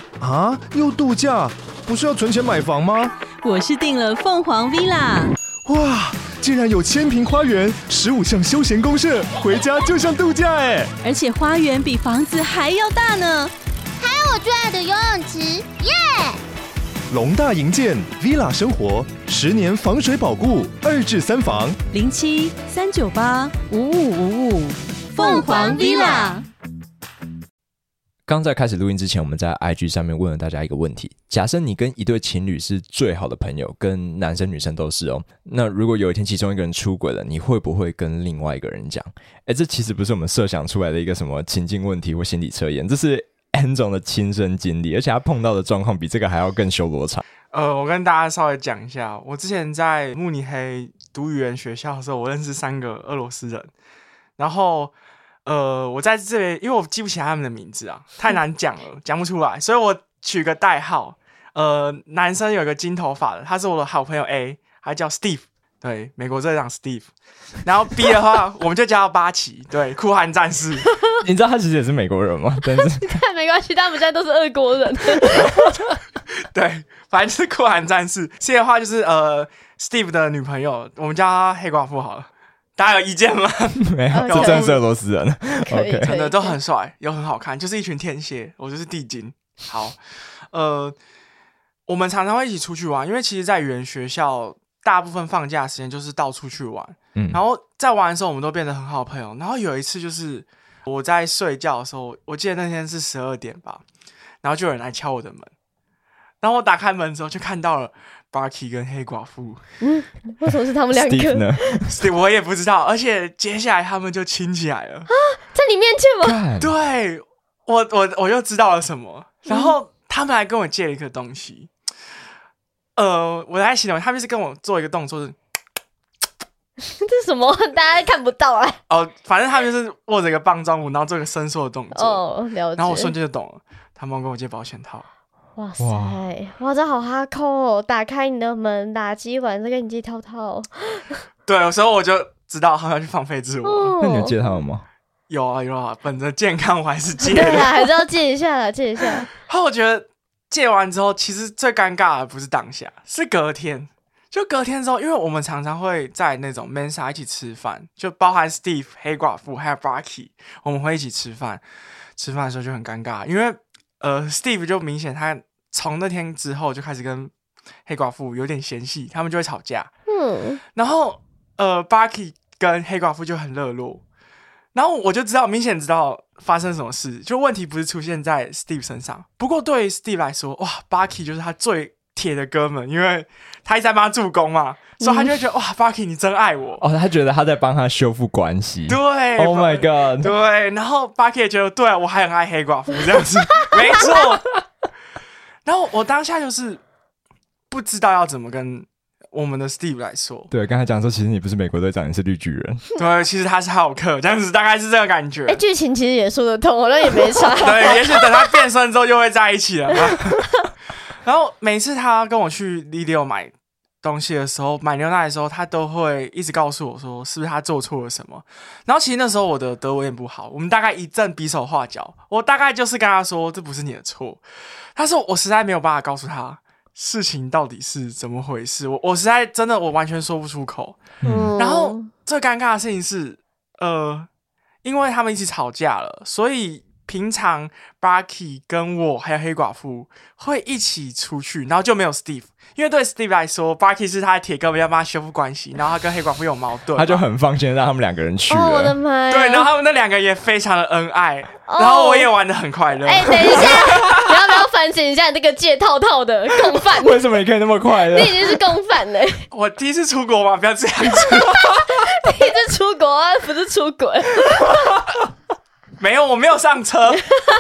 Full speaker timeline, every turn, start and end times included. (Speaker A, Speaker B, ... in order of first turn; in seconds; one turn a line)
Speaker A: 0.2-3.1
Speaker B: 3.4-5.3
Speaker A: 5.6-10.9
Speaker B: 11.0-13.5
Speaker C: 14.0-16.4
Speaker A: 17.1-21.8
Speaker B: 21.9-26.4
Speaker C: 25.2-26.4
Speaker D: 28.3-47.2
Speaker E: 47.5-53.7
Speaker E: 54.4-54.9
Speaker E: 55.4-67.1
Speaker E: 67.6-70.8
Speaker D: 71.2-73.2
Speaker F: 72.7-75.8
Speaker E: 76.5-84.8
Speaker D: 83.8-86.1
Speaker F: 84.1-84.8
Speaker F: 85.7-86.6
Speaker E: 86.0-90.0
Speaker E: 90.5-91.0
Speaker E: 91.9-103.8
Speaker E: 104.4-105.5
Speaker E: 106.4-109.6
Speaker F: 109.8-111.8
Speaker D: 110.9-112.0
Speaker E: 111.9-115.1
Speaker F: 115.1-116.4
Speaker D: 116.2-116.7
Speaker E: 116.6-121.7
Speaker F: 119.5-119.7
Speaker E: 123.0-125.3
Speaker F: 126.9-128.8
Speaker E: 128.9-132.2
Speaker F: 131.9-133.1
Speaker E: 132.8-135.1
Speaker F: 135.6-141.1
Speaker D: 135.8-136.2
Speaker E: 141.4-143.9
Speaker F: 143.6-144.4
Speaker D: 144.0-144.8
Speaker E: 145.3-147.9
Speaker F: 147.2-149.3
Speaker E: 149.4-161.6
Speaker E: 162.2-167.3
Speaker E: 167.8-169.9
Speaker F: 170.1-170.6
Speaker E: 170.7-174.0
Speaker E: 174.7-186.8
Speaker F: 185.0-185.3
Speaker D: 186.8-190.3
Speaker E: 188.9-194.5
Speaker E: 195.6-196.8
Speaker E: 197.7-200.5
Speaker D: 200.5-202.8
Speaker E: 202.9-205.6
Speaker F: 205.5-208.2
Speaker E: 207.6-210.4
Speaker E: 211.2-224.4
Speaker E: 224.9-231.0
Speaker D: 231.2-231.5
Speaker F: 231.2-232.1
Speaker E: 231.6-234.3
Speaker E: 234.8-247.2
Speaker D: 246.9-248.9
Speaker F: 248.5-249.7
Speaker E: 249.3-254.1
Speaker F: 251.7-252.3
Speaker F: 253.0-257.2
Speaker D: 257.0-258.6
Speaker F: 257.9-259.4
Speaker E: 259.5-261.7
Speaker F: 261.3-264.7
Speaker E: 266.0-267.3